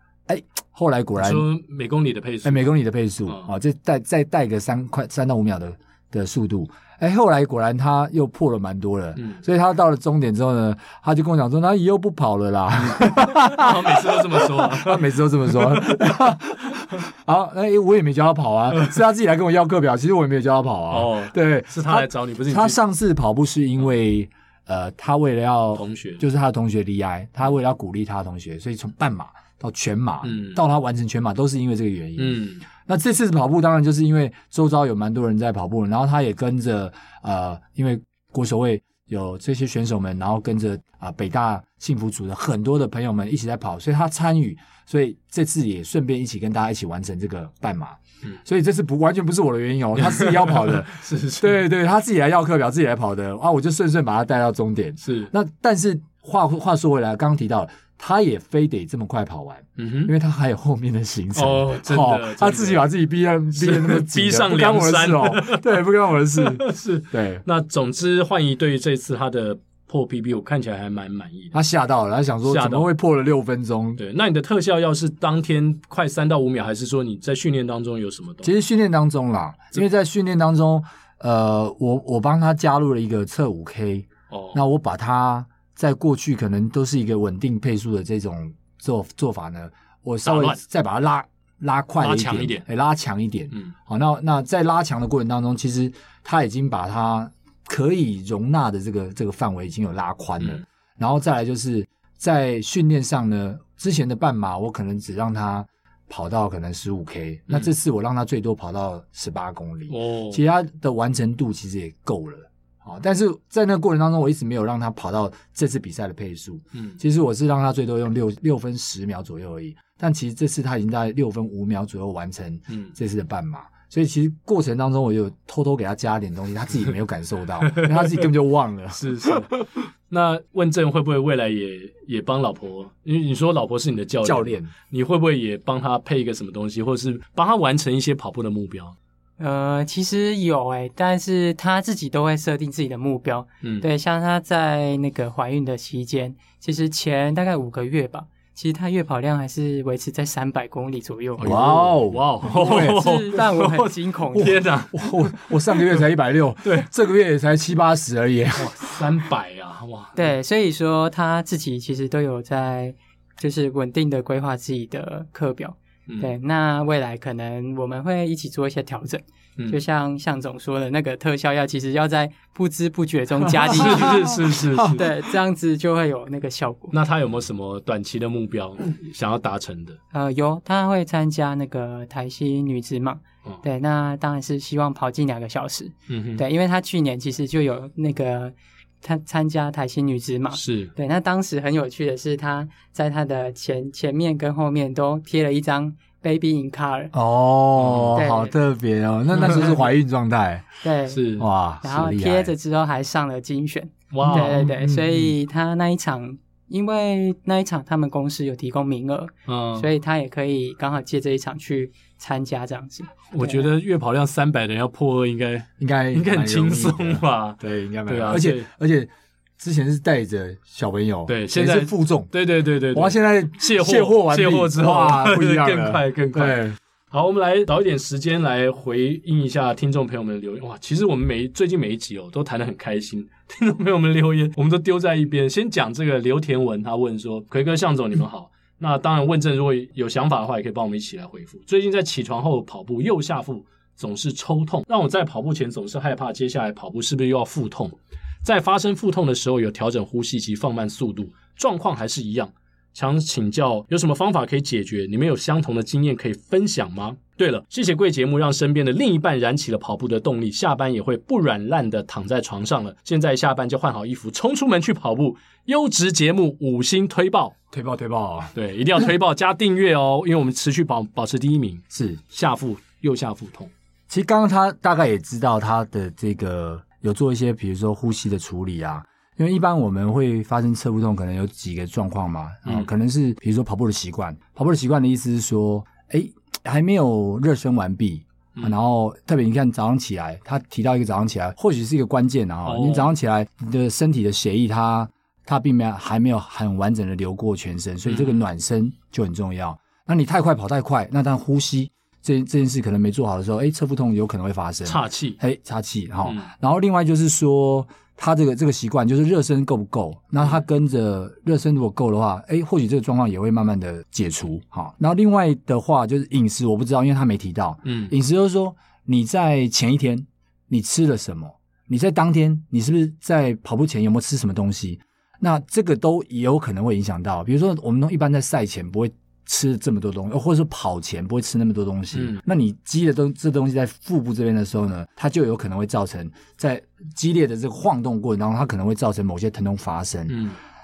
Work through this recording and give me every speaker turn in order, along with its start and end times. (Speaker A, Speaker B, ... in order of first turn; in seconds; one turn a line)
Speaker A: 0.3-1.5
Speaker B: 1.2-2.7
Speaker A: 2.4-67.4
Speaker B: 9.2-9.4
Speaker B: 13.0-16.3
Speaker B: 20.9-22.8
Speaker B: 25.8-26.2
Speaker B: 30.2-30.6
Speaker B: 32.2-32.6
Speaker B: 50.0-51.6
Speaker B: 55.0-55.3
Speaker B: 59.8-60.1
Speaker B: 61.3-62.9
Speaker B: 63.5-65.8
Speaker B: 66.3-71.5
Speaker A: 71.5-74.0
Speaker B: 72.4-72.9
Speaker B: 74.0-78.5
Speaker A: 78.4-129.5
Speaker B: 84.3-84.6
Speaker B: 90.2-90.6
Speaker B: 92.0-92.6
Speaker B: 109.9-110.4
Speaker B: 127.7-128.3
Speaker B: 128.9-138.9
Speaker A: 134.2-134.7
Speaker C: 139.4-151.6
Speaker B: 151.4-156.1
Speaker A: 151.4-153.2
Speaker C: 152.4-154.6
Speaker A: 154.3-159.0
Speaker B: 158.6-160.3
Speaker C: 160.2-174.3
Speaker B: 173.7-175.0
Speaker C: 174.9-176.9
Speaker B: 176.9-180.0
Speaker C: 180.1-197.1
Speaker B: 186.1-186.4
Speaker B: 190.5-190.9
Speaker A: 197.1-200.7
Speaker B: 197.8-198.2
Speaker C: 198.1-198.5
Speaker B: 199.4-199.8
Speaker C: 200.8-201.2
Speaker B: 201.1-201.5
Speaker A: 201.3-202.5
Speaker C: 201.8-213.6
Speaker B: 204.1-204.7
Speaker A: 204.3-205.3
Speaker B: 209.5-209.9
Speaker B: 213.3-218.7
Speaker A: 215.8-222.3
Speaker B: 221.3-267.6
Speaker A: 222.9-226.8
Speaker A: 267.7-269.1
Speaker B: 268.5-273.7
Speaker A: 271.9-272.2
Speaker A: 274.1-340.4
Speaker B: 292.6-293.1
Speaker B: 298.1-298.4
Speaker B: 304.8-305.4
Speaker B: 317.9-318.1
Speaker B: 332.1-332.4
Speaker B: 340.3-340.6